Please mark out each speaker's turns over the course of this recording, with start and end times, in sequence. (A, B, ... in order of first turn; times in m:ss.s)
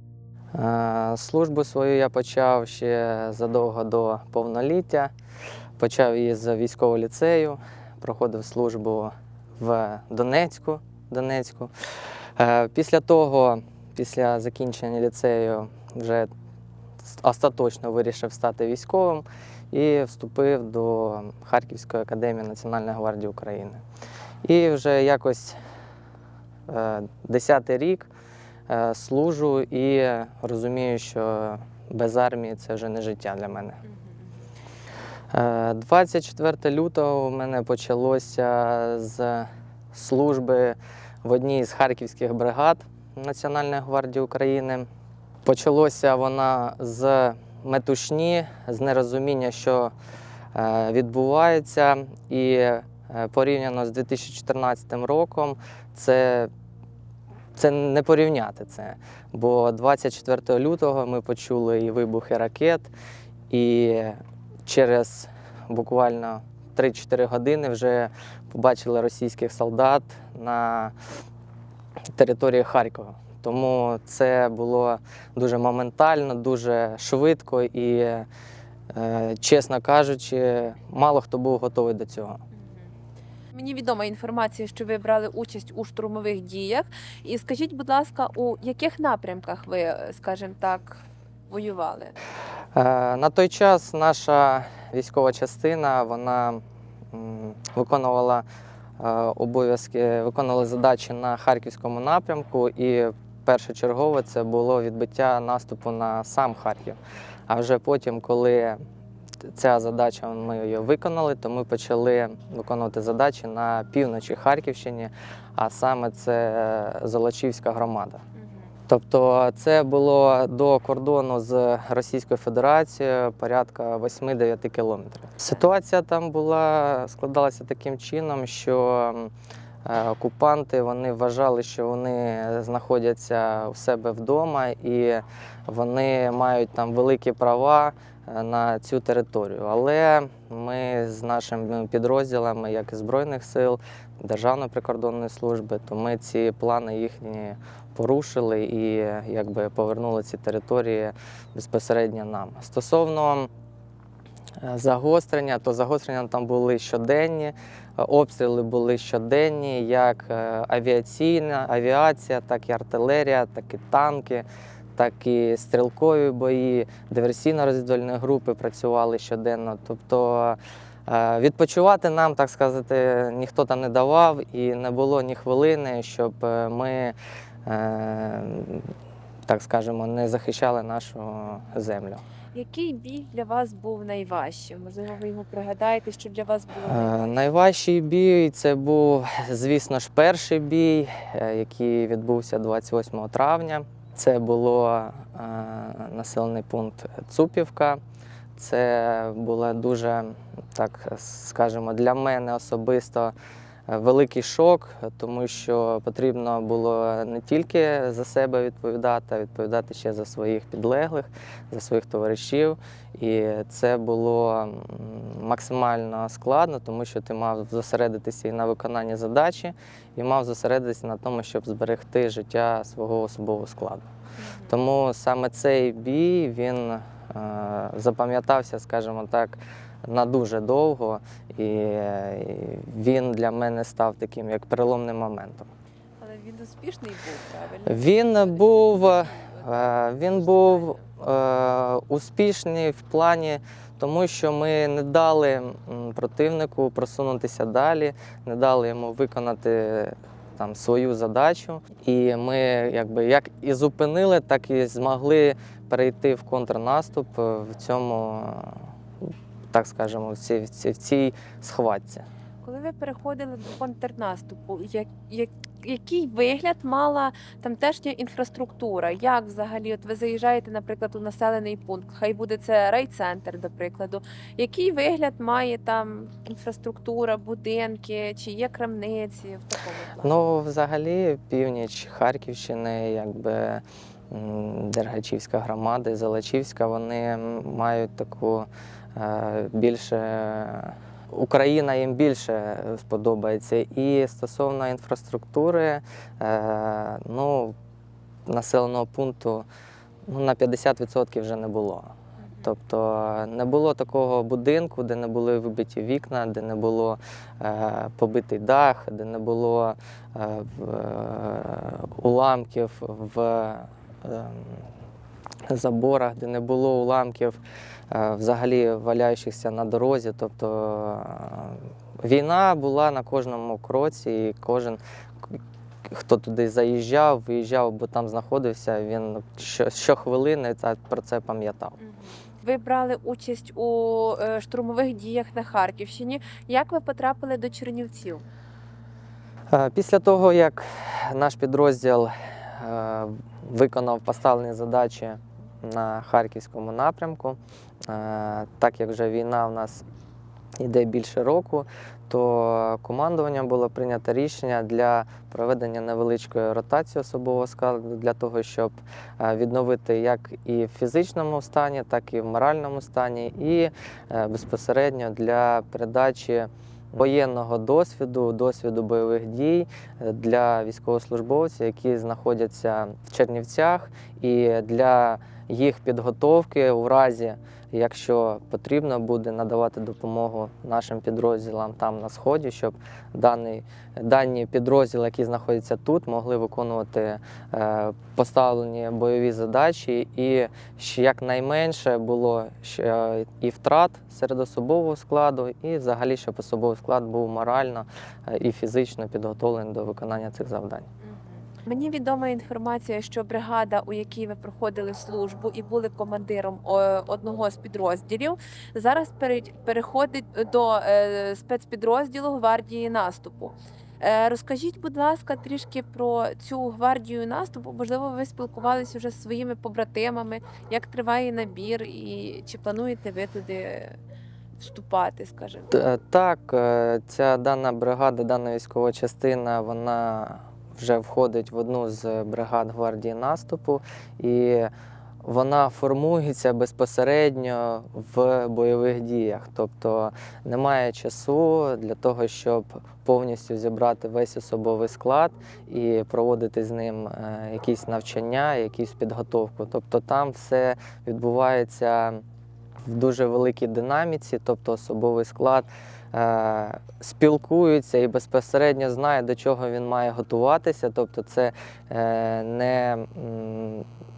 0:00.5-0:05.1 A
0:05.8-0:11.7 A
0:12.4-0:16.3 A
0:17.0-0:23.8 A
0:24.4-0:25.6 A
0:26.7-0:28.1 A
0:28.7-0:33.8 A
0:35.3-0:44.9 A
0:45.4-0:49.9 A
0:50.5-0:56.5 A
0:57.6-1:02.9 A
1:03.5-1:10.9 A
1:12.2-1:18.3 A
1:18.9-1:22.4 A
1:23.5-1:32.1 B
1:32.8-1:36.6 A
1:37.1-1:38.4 A
1:39.0-1:48.8 A
1:49.5-1:58.2 A
1:58.9-2:09.3 A
2:09.8-2:33.5 A
2:34.6-2:58.9 A
2:59.5-3:02.2 A
3:02.5-3:07.4 B
3:06.8-3:18.0 A
3:18.6-3:23.3 A
3:23.9-3:44.0 A
3:44.4-3:44.8 B
3:44.7-3:55.7 A
3:56.2-4:01.0 B
3:57.9-4:18.8 A
4:19.7-4:22.3 A
4:22.6-4:40.3 B
4:40.2-4:57.8 A
4:58.5-4:59.7 A
5:00.3-5:02.1 A
5:02.4-5:02.7 B
5:02.6-5:14.8 A
5:15.7-5:17.6 A
5:18.1-5:25.0 A
5:26.1-5:32.0 A
5:32.0-5:38.4 B
5:39.7-5:50.0 A
5:50.8-6:41.1 A
6:41.2-7:04.2 B
7:04.8-7:05.9 B
7:05.9-7:14.9 A
7:15.4-7:32.4 A
7:33.0-7:44.0 A